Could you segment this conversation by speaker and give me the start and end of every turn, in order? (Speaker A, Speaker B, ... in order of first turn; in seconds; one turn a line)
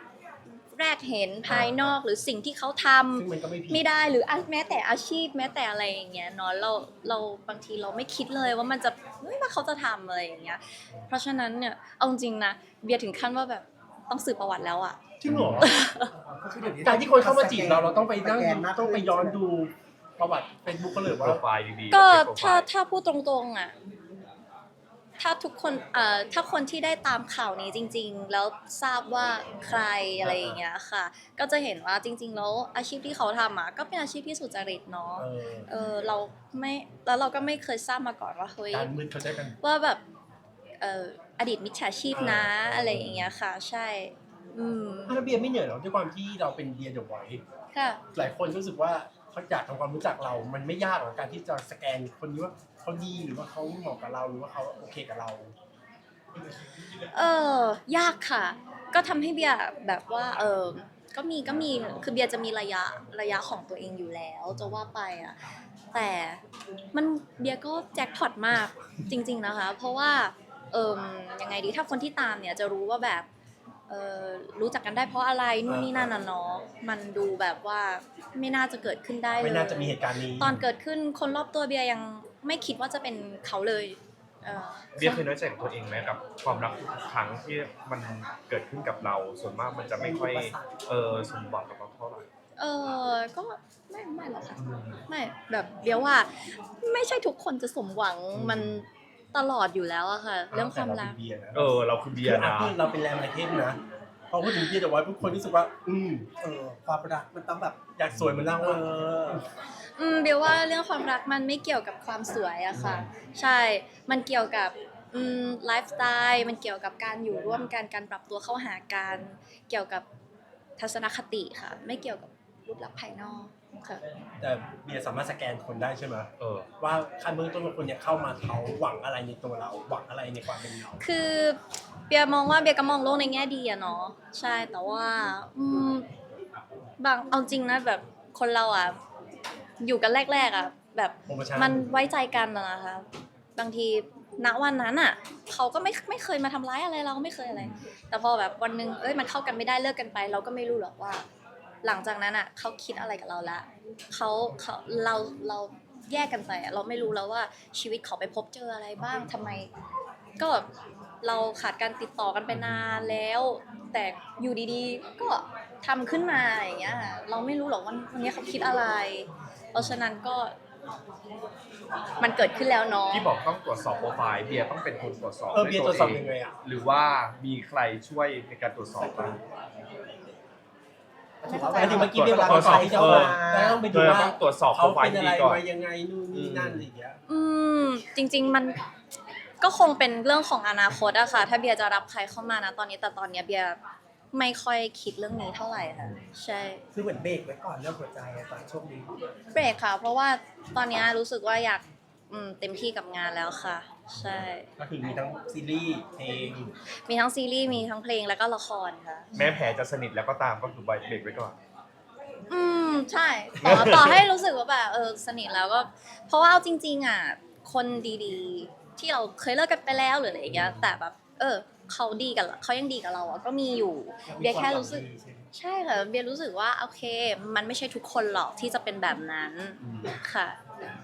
Speaker A: 0.7-15.0
Speaker B: 1.4-2.0
Speaker C: 3.1-3.8
Speaker C: 15.2-15.7
Speaker B: 15.3-15.7
Speaker A: 15.6-16.1
Speaker D: 16.2-19.4
Speaker C: 16.8-21.4
Speaker B: 21.2-22.7
Speaker A: 21.9-23.7
Speaker A: 25.2-38.9
Speaker C: 30.2-30.6
Speaker C: 35.2-35.7
Speaker C: 38.7-39.6
Speaker A: 39.6-40.0
Speaker A: 40.8-45.2
Speaker C: 42.1-43.2
Speaker C: 45.1-47.4
Speaker A: 47.7-48.0
Speaker C: 48.1-55.5
Speaker A: 57.1-65.4
Speaker A: 65.9-66.4
Speaker A: 66.9-73.3
Speaker A: 73.9-85.2
Speaker C: 75.7-76.1
Speaker C: 79.4-80.5
Speaker B: 85.0-92.2
Speaker D: 90.0-90.5
Speaker A: 92.6-101.2
Speaker B: 94.6-95.0
Speaker B: 98.3-98.8
Speaker C: 100.5-106.3
Speaker B: 101.5-102.8
Speaker D: 106.4-107.8
Speaker C: 108.0-109.4
Speaker B: 108.1-108.5
Speaker D: 108.6-109.0
Speaker A: 110.0-120.0
Speaker B: 112.7-113.1
Speaker A: 120.8-124.0
Speaker C: 124.4-126.3
Speaker B: 126.4-126.7
Speaker C: 126.8-131.0
Speaker A: 131.0-131.6
Speaker A: 132.1-136.1
Speaker A: 137.0-139.0
Speaker A: 139.8-143.1
Speaker C: 141.3-141.9
Speaker A: 143.6-151.2
Speaker A: 151.8-159.7
Speaker A: 160.4-160.7
Speaker A: 161.2-170.5
Speaker B: 162.5-163.2
Speaker B: 166.9-167.2
Speaker A: 172.2-173.3
Speaker B: 173.1-179.4
Speaker C: 175.5-176.5
Speaker D: 181.4-183.8
Speaker A: 181.4-182.2
Speaker C: 181.7-187.2
Speaker B: 182.0-185.6
Speaker B: 186.3-186.9
Speaker A: 187.3-188.8
Speaker A: 189.6-193.8
Speaker A: 194.3-196.8
Speaker D: 196.9-199.1
Speaker A: 199.5-204.7
Speaker B: 204.1-204.5
Speaker C: 204.8-206.7
Speaker A: 207.1-209.3
Speaker B: 209.3-211.6
Speaker A: 212.5-230.6
Speaker B: 213.6-214.2
Speaker C: 220.5-220.9
Speaker D: 224.3-225.4
Speaker C: 229.8-230.1